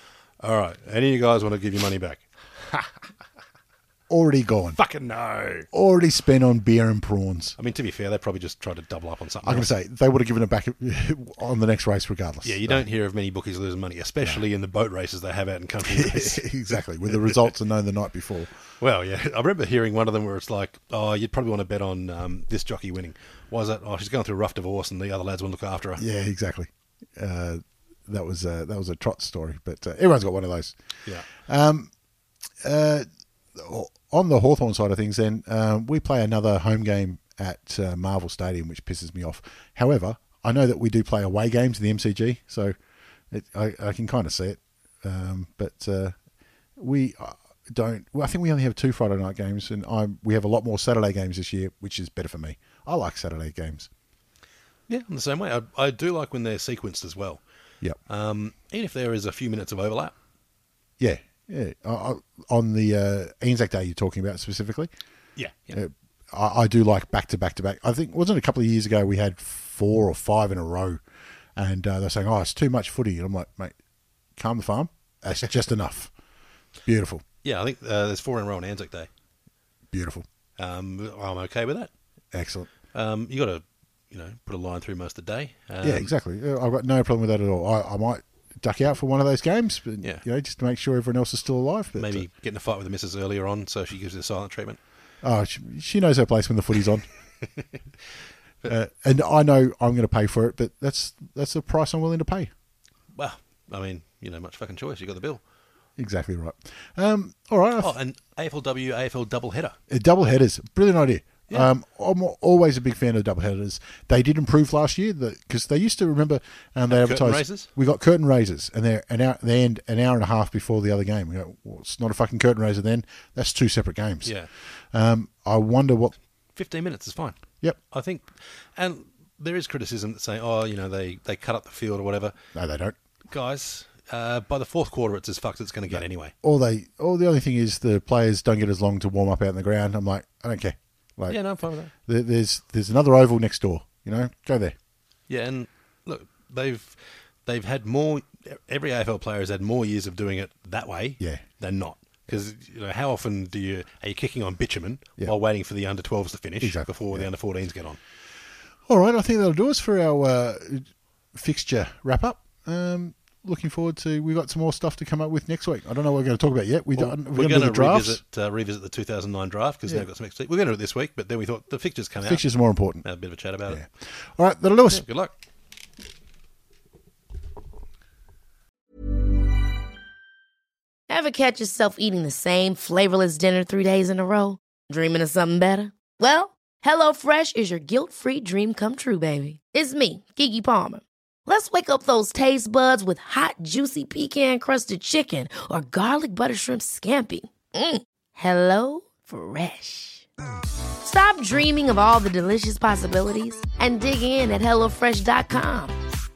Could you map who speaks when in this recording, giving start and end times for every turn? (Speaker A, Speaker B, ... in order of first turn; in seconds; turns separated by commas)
Speaker A: 0.4-2.2, Speaker B: 4.1-4.8, Speaker A: 4.8-5.7, Speaker B: 5.7-7.6, Speaker A: 7.6-9.7, Speaker B: 9.4-12.8, Speaker A: 12.4-16.6, Speaker B: 15.9-18.5, Speaker A: 17.1-17.5, Speaker A: 18.8-26.0, Speaker B: 26.0-31.9, Speaker B: 32.6-42.7, Speaker B: 43.3-46.1, Speaker B: 46.8-53.9, Speaker A: 54.9-57.4, Speaker A: 58.1-60.1, Speaker B: 61.0-64.9, Speaker A: 65.4-65.8, Speaker B: 65.7-71.0, Speaker B: 71.5-73.8, Speaker B: 74.4-76.1, Speaker B: 76.8-77.2, Speaker A: 77.4-79.1, Speaker B: 79.9-80.3, Speaker A: 80.6-81.9, Speaker B: 82.3-82.7, Speaker A: 82.9-86.1, Speaker B: 85.8-92.3, Speaker A: 92.0-94.8, Speaker B: 95.2-97.0, Speaker B: 98.6-102.5, Speaker A: 103.2-105.4, Speaker B: 106.0-107.9, Speaker A: 107.8-109.8, Speaker B: 109.9-124.4, Speaker A: 116.9-117.7, Speaker A: 124.2-124.5, Speaker B: 124.9-126.1, Speaker A: 126.5-127.4, Speaker A: 127.9-132.4, Speaker B: 132.6-132.9, Speaker A: 133.3-136.3, Speaker B: 135.9-141.4, Speaker A: 141.3-141.9, Speaker B: 142.0-144.7, Speaker A: 145.3-158.0, Speaker B: 156.6-157.3, Speaker B: 158.9-168.2, Speaker A: 166.9-172.4, Speaker B: 172.2-173.1, Speaker A: 173.0-173.8, Speaker B: 173.7-175.0, Speaker A: 174.9-175.3, Speaker C: 181.1-200.3, Speaker C: 201.0-206.0